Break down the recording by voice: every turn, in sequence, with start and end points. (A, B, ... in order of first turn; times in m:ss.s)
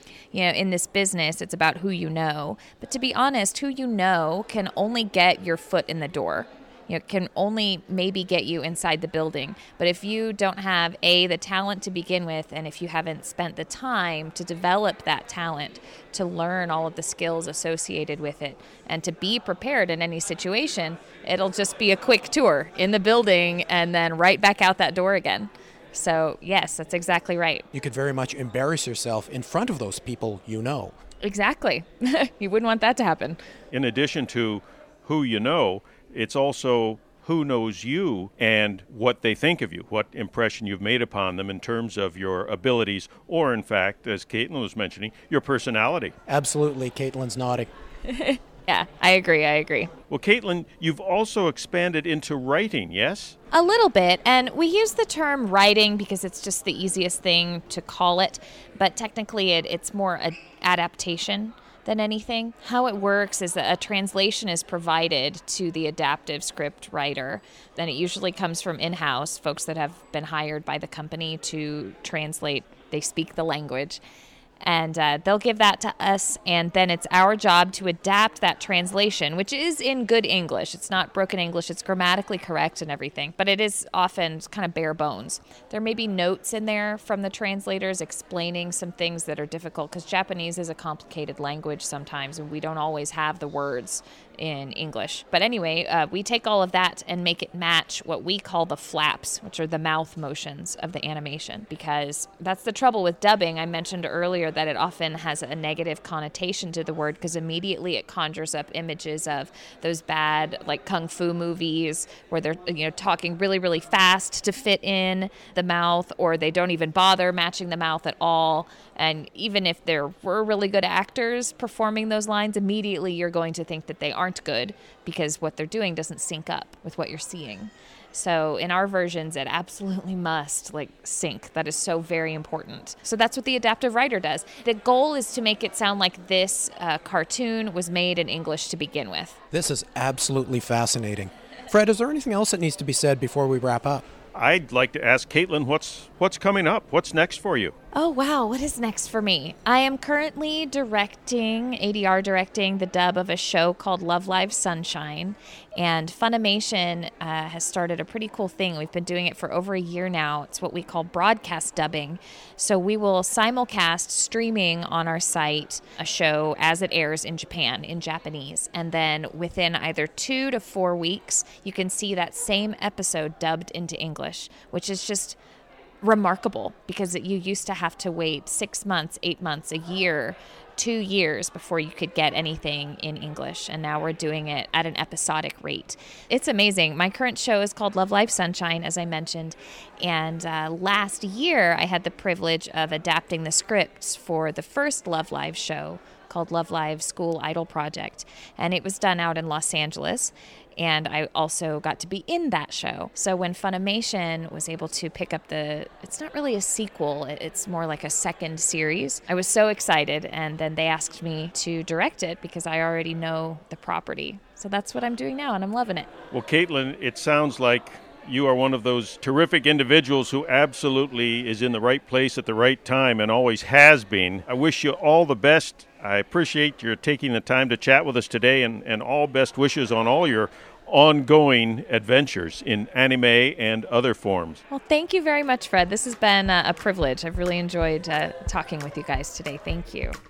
0:00.3-0:27.6 A
0:27.7-0:31.0 B
0:31.2-0:33.4 A
0:33.7-0:46.1 C
0:46.3-0:47.7 B
0:48.0-0:49.9 A
0:50.1-0:53.4 C
0:53.5-1:14.0 A
1:14.6-2:19.4 A
2:19.5-2:24.0 B
2:24.3-2:27.7 C
2:27.9-2:55.4 A
2:56.0-3:36.1 A
3:36.3-3:54.6 C
3:54.7-4:00.2 A